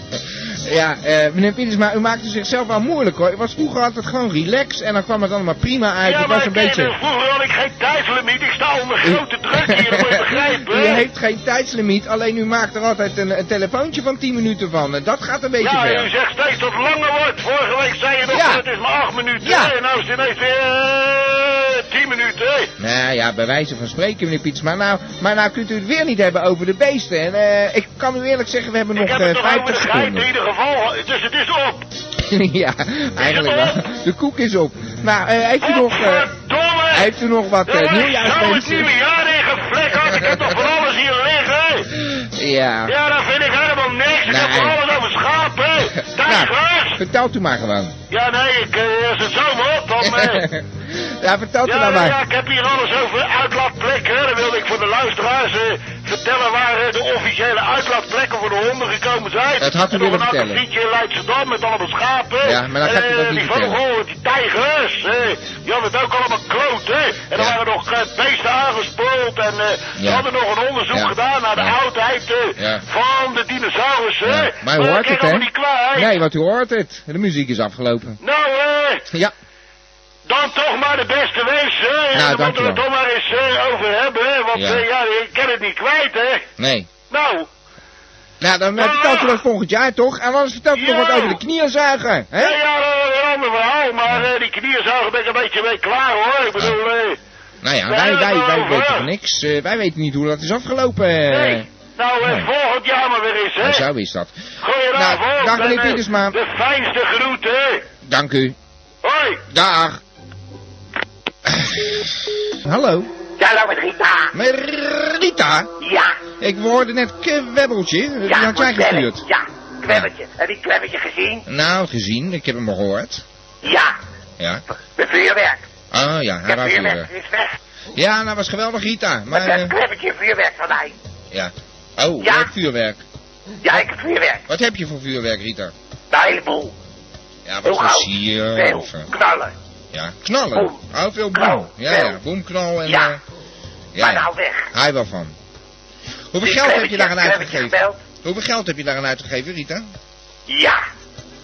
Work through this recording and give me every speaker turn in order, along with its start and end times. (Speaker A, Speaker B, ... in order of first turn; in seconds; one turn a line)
Speaker A: 0.2-6.9
Speaker B: 6.0-11.0
Speaker A: 9.0-16.1
Speaker B: 15.6-22.7
Speaker A: 18.3-18.6
Speaker A: 19.4-19.7
Speaker A: 22.8-30.3
Speaker B: 28.9-31.9
Speaker A: 32.2-36.3
Speaker B: 33.2-33.8
Speaker B: 35.6-37.1
Speaker A: 36.9-38.9
Speaker B: 37.6-41.9
Speaker A: 40.0-40.6
Speaker A: 42.0-43.0
Speaker B: 42.9-47.0
Speaker A: 44.2-44.8
Speaker A: 46.0-48.0
Speaker B: 48.1-50.5
Speaker A: 50.0-52.2
Speaker B: 51.6-76.1
Speaker A: 59.6-60.6
Speaker A: 62.4-63.8
Speaker A: 70.0-70.3
Speaker A: 70.9-71.8
Speaker A: 72.6-72.8
Speaker A: 74.2-78.2
Speaker B: 78.2-79.0
Speaker B: 80.3-86.5
Speaker A: 82.1-82.8
Speaker A: 84.5-84.8
Speaker A: 86.6-86.9
Speaker B: 87.1-87.5
Speaker A: 88.4-92.6
Speaker B: 88.8-89.4
Speaker B: 90.7-91.4
Speaker B: 92.4-97.2
Speaker A: 97.6-101.7
Speaker B: 97.9-99.1
Speaker B: 101.3-103.8
Speaker A: 102.2-102.5
Speaker A: 103.6-104.3
Speaker B: 104.6-107.8
Speaker A: 104.9-106.4
Speaker A: 108.0-108.5
Speaker B: 109.0-109.4
Speaker A: 109.5-110.0
Speaker A: 111.5-113.1
Speaker C: 113.4-114.3
Speaker A: 114.3-115.7
Speaker C: 115.8-116.2
Speaker A: 116.4-119.2
Speaker C: 118.2-121.4
Speaker A: 121.5-123.2
Speaker C: 123.6-124.0
Speaker C: 124.8-125.6
Speaker A: 125.9-127.1
Speaker C: 126.5-127.6
Speaker A: 127.9-129.8
Speaker C: 129.3-130.9
Speaker A: 131.3-133.0
Speaker C: 132.2-132.5
Speaker C: 133.6-134.4
Speaker A: 134.5-135.7
Speaker C: 136.1-136.7
Speaker A: 137.4-139.1
Speaker C: 137.6-139.5
Speaker A: 139.9-143.2
Speaker C: 141.3-142.2
Speaker A: 143.9-145.3
Speaker C: 144.0-144.7
Speaker A: 146.3-149.9
Speaker C: 146.4-148.0
Speaker C: 150.5-150.8